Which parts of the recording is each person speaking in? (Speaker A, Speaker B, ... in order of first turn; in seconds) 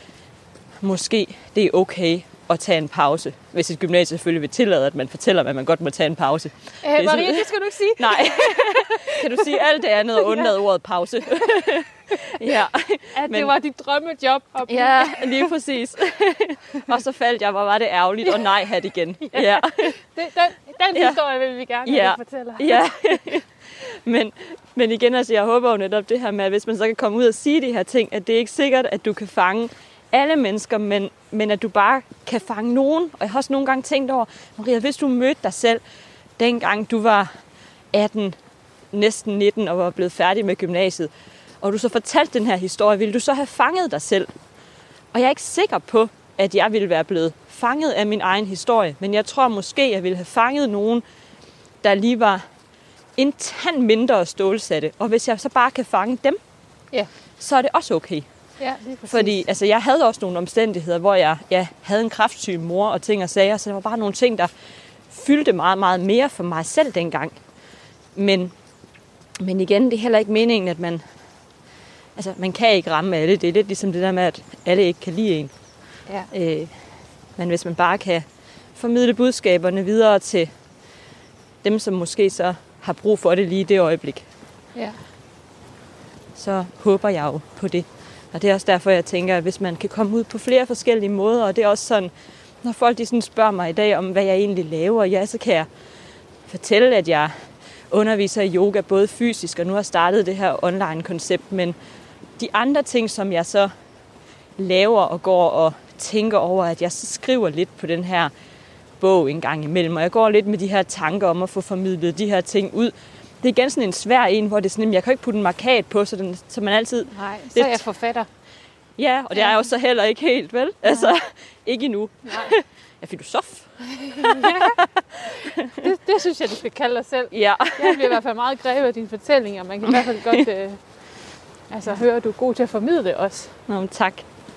Speaker A: 0.8-13.5, 14.7-20.0, 21.8-35.8, 36.4-37.3, 37.9-38.4, 38.9-41.1, 41.6-44.3, 45.1-51.0, 51.8-52.4, 53.2-56.4, 57.4-58.2, 59.1-64.5, 65.1-67.3, 68.1-68.5, 69.4-71.0, 72.2-75.5, 76.3-76.7, 77.4-78.2, 78.8-80.5, 81.6-84.2, 86.3-92.1, 92.6-95.7, 96.5-97.3, 97.9-101.8, 102.4-103.7, 104.6-108.3, 109.0-117.8, 119.0-125.8, 127.3-128.1, 133.7-134.2
Speaker B: 6.8-9.6, 10.2-10.5, 11.3-11.6, 13.1-15.5, 19.3-22.9, 58.6-59.4, 117.1-118.3, 119.3-119.6, 120.9-121.1, 122.3-122.5, 123.9-124.8, 125.5-133.6